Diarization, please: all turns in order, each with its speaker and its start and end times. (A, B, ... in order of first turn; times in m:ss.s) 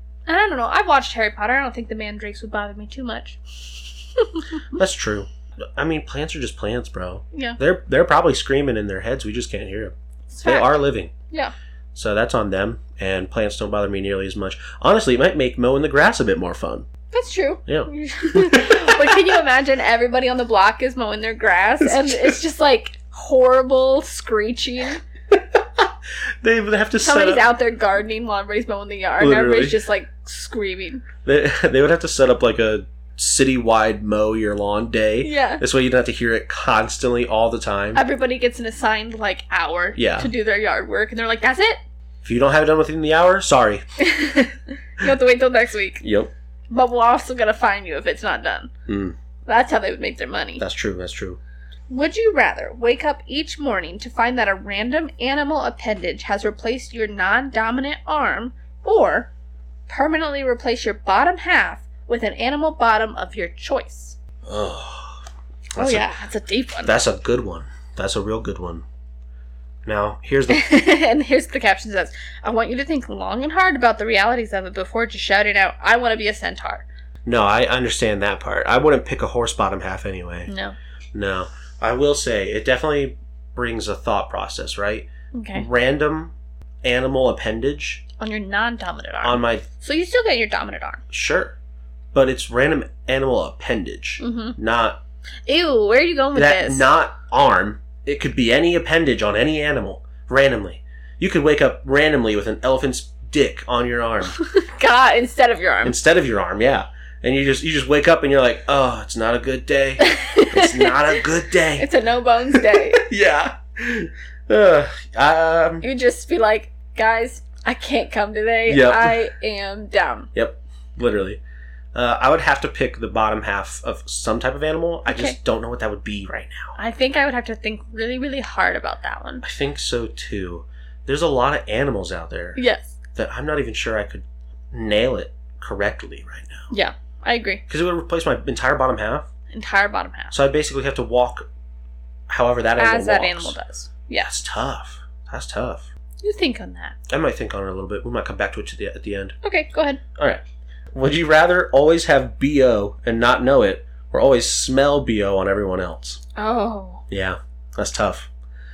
0:00.3-0:03.4 A
0:04.2-0:04.6 A
0:04.7-0:09.9 B
0:07.3-0:07.6 A
0:10.3-0:10.8 A
0:10.4-0:11.1 B
0:11.9-0:16.9 B
0:17.1-0:25.0 A
0:17.7-0:19.4 B
0:21.8-0:22.4 B
0:25.3-0:27.5 B
0:27.0-0:31.0 A
0:29.2-0:29.8 B
0:31.2-0:38.0 B
0:35.2-0:35.6 A
0:37.9-0:41.8 A
0:40.0-0:40.3 B
0:42.2-0:43.8 B
0:44.0-0:46.0 A
0:46.0-0:46.3 B
0:46.7-0:48.7 A
0:48.9-0:49.2 B
0:49.5-0:50.6 A
0:50.6-0:51.4 B
0:51.9-0:59.3 A
0:59.9-1:04.2 A
1:04.4-1:05.2 B
1:05.8-1:06.1 B
1:05.8-1:07.0 A
1:06.8-1:08.8 B
1:09.8-1:10.6 B
1:10.5-1:16.9 A
1:17.2-1:20.5 B
1:20.5-1:20.8 A
1:21.1-1:28.0 B
1:25.3-1:25.7 A
1:28.2-1:31.0 A
1:29.2-1:29.7 B
1:31.1-1:31.6 B
1:32.1-1:35.0 B
1:34.2-1:34.6 A
1:35.5-1:36.8 A
1:36.3-1:44.4 B
1:44.4-1:46.0 A
1:45.8-1:51.9 B
1:50.0-1:53.0 A
1:52.5-1:55.8 B
1:55.8-2:00.3 A
1:58.7-1:59.2 B
2:00.3-2:01.4 B
2:01.9-2:06.8 B
2:05.1-2:05.4 A
2:06.8-2:09.4 A
2:09.4-2:12.6 B
2:12.6-2:13.0 A
2:13.2-2:16.7 B
2:16.7-2:17.6 A
2:17.7-2:19.3 B
2:19.5-2:20.3 A
2:20.3-2:21.5 B
2:22.3-2:23.6 B
2:22.8-2:24.3 A
2:24.2-2:25.9 B
2:26.2-2:27.0 A
2:27.1-2:29.4 B
2:29.4-2:30.0 A
2:30.2-2:30.4 B
2:30.9-2:36.2 B
2:36.4-2:37.0 A
2:37.1-2:38.3 B